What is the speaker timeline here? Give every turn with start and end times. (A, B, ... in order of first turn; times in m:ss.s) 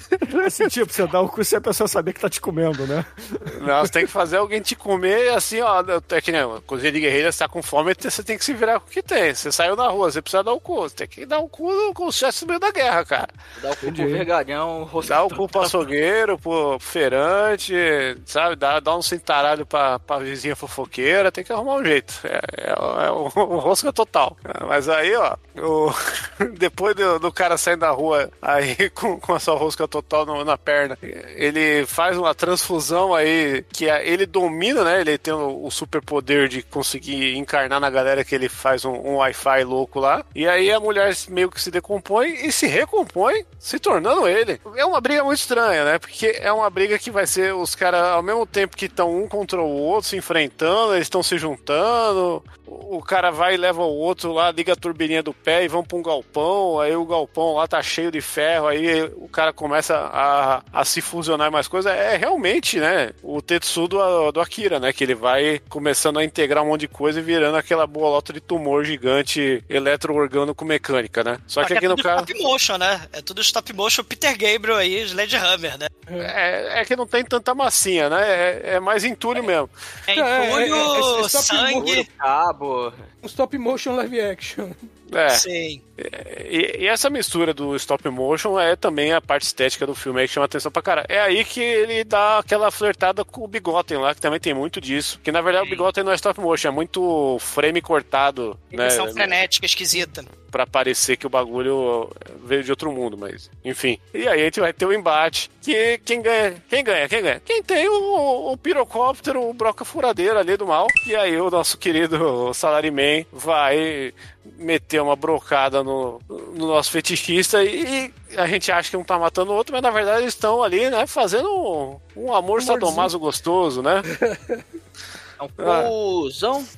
0:00.2-0:03.9 A
0:03.5-0:13.3 B
0:13.6-0:15.8 C
0:13.8-0:14.3 A
0:15.0-1:12.3 B
1:11.6-1:15.9 D
1:16.1-1:16.3 E
1:16.2-1:19.7 B
1:20.1-1:22.0 D
1:20.1-1:22.0 E
1:21.8-1:23.0 C
1:23.2-1:24.7 E
1:25.1-1:25.4 B
1:25.3-1:25.8 D
1:26.0-1:39.3 B
1:35.6-1:35.9 D
1:38.7-1:40.3 D
1:40.5-2:04.1 B
2:02.6-2:03.1 E
2:04.1-2:04.6 E
2:05.4-2:06.7 C
2:05.6-2:05.9 B